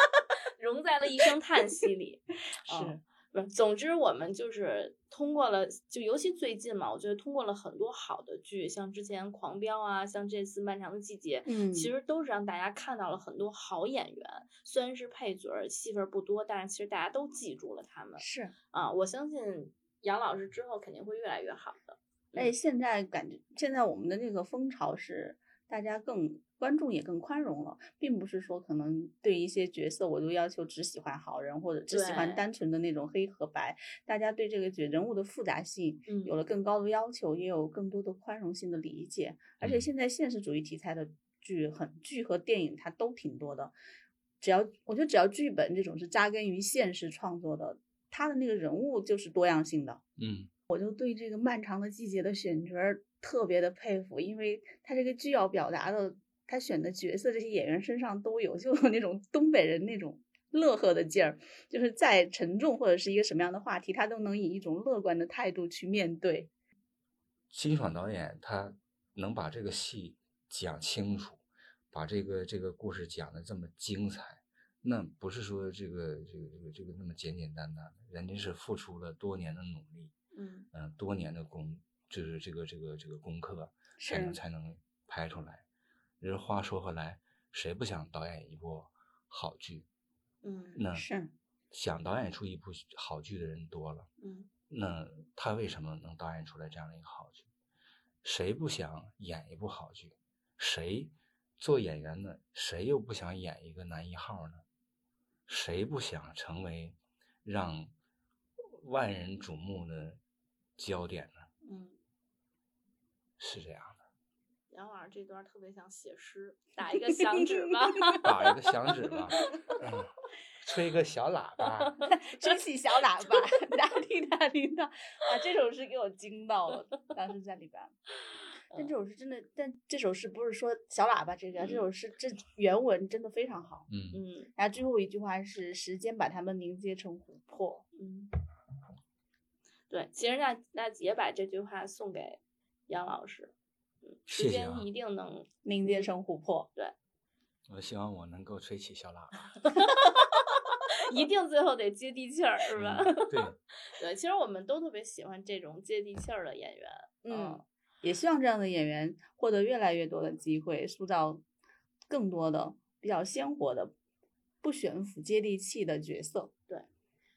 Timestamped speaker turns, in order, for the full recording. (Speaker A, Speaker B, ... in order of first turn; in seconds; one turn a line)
Speaker A: 0.6-22.5
Speaker B: 2.7-3.0
Speaker B: 11.5-11.9
Speaker B: 18.2-18.6
Speaker B: 22.4-43.8
Speaker A: 31.9-32.5
Speaker A: 36.1-36.4
Speaker C: 39.6-39.9
Speaker B: 44.4-50.0
Speaker C: 50.2-50.5
Speaker B: 50.7-66.5
Speaker C: 67.5-80.1
Speaker A: 80.3-80.7
Speaker C: 80.7-85.6
Speaker B: 84.0-84.4
Speaker C: 86.2-89.9
Speaker A: 90.4-90.8
Speaker C: 90.8-91.1
Speaker B: 90.9-91.3
Speaker C: 91.7-94.1
Speaker A: 94.2-94.5
Speaker C: 94.7-97.5
Speaker C: 98.2-104.6
Speaker C: 105.5-107.9
Speaker C: 108.8-110.2
Speaker C: 110.8-111.5
Speaker A: 111.6-112.0
Speaker C: 113.4-114.0
Speaker A: 114.7-118.3
Speaker B: 116.9-118.3
Speaker C: 118.2-122.0
Speaker B: 119.4-119.7
Speaker A: 121.9-122.5
Speaker B: 122.1-127.9
Speaker B: 128.7-133.9
Speaker A: 131.6-131.8
Speaker C: 133.9-134.2
Speaker A: 134.1-134.5
Speaker B: 134.6-137.8
Speaker A: 137.9-138.3
Speaker A: 139.9-143.5
Speaker A: 144.1-146.1
Speaker C: 144.3-144.9
Speaker B: 145.7-146.7
Speaker C: 147.7-149.6
Speaker A: 149.7-157.6
Speaker C: 152.7-153.6
Speaker B: 157.2-161.4
Speaker B: 162.1-163.9
Speaker B: 164.6-166.5